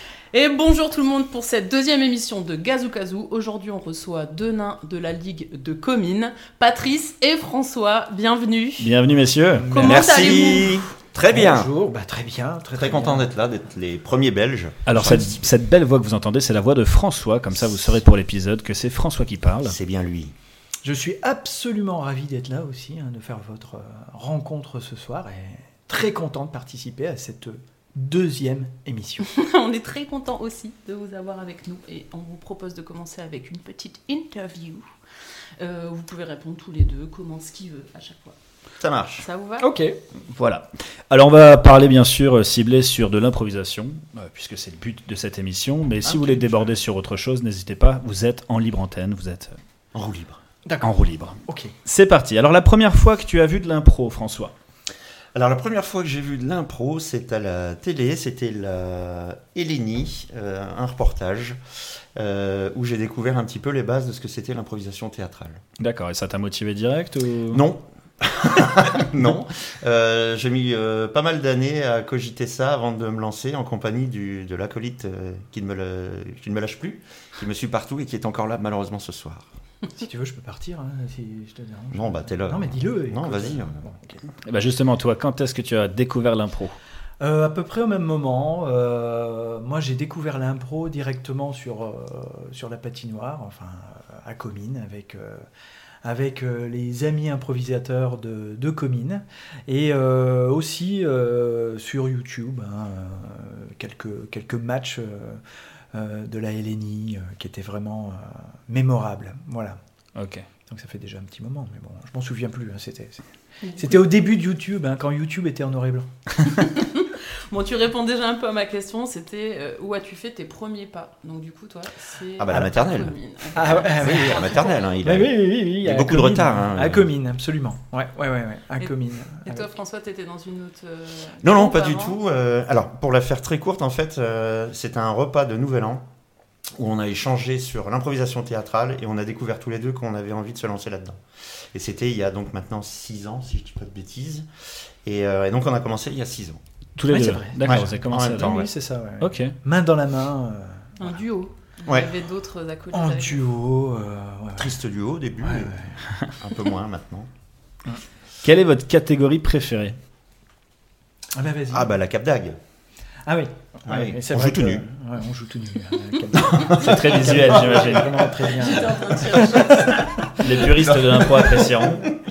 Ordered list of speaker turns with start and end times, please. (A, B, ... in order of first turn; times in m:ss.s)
0:00.3-0:08.9 A
0:08.8-0:09.8 B
0:09.6-0:10.7 C
0:09.6-0:10.8 A
0:09.8-0:11.7 D
0:11.3-0:13.3 C
0:12.7-0:15.5 D
0:14.9-0:19.8 B
0:19.7-0:20.3 D
0:20.8-0:29.2 C
0:29.2-0:34.9 A
0:35.6-0:38.4 A
0:38.8-0:39.3 D
0:39.2-0:39.7 A
0:39.6-0:40.0 C
0:40.3-0:49.6 B
0:46.1-0:46.7 C
0:49.9-0:50.4 D
0:50.6-0:50.9 C
0:50.8-0:54.5 B
0:51.4-0:51.8 C
0:55.3-1:01.6 D
1:02.2-1:05.6 D
1:05.8-1:07.6 B
1:07.5-1:19.5 D
1:20.0-1:24.2 C
1:21.9-1:23.9 D
1:24.5-1:26.8 B
1:27.2-1:35.5 C
1:36.0-1:49.8 C
1:50.2-1:50.5 B
1:50.7-1:56.1 C
1:53.6-1:54.0 A
1:56.6-2:04.9 A
2:02.4-2:07.1 D
2:03.6-2:09.6 C
2:08.8-2:12.2 A
2:11.4-2:16.1 D
2:16.7-2:26.6 D
2:27.0-2:29.6 B
2:27.1-2:31.0 C
2:27.6-2:28.7 D
2:31.0-2:33.4 A
2:31.8-2:32.1 D
2:32.9-2:34.7 C
2:34.6-2:37.3 D
2:35.4-2:36.0 C
2:38.4-2:40.0 B
2:41.4-2:41.9 C
2:41.7-2:42.6 D
2:43.2-2:50.0 C
2:43.8-2:44.8 D
2:46.4-2:48.2 D
2:46.5-2:48.3 B
2:48.5-2:50.1 A
2:50.2-2:52.1 D
2:50.2-2:52.1 B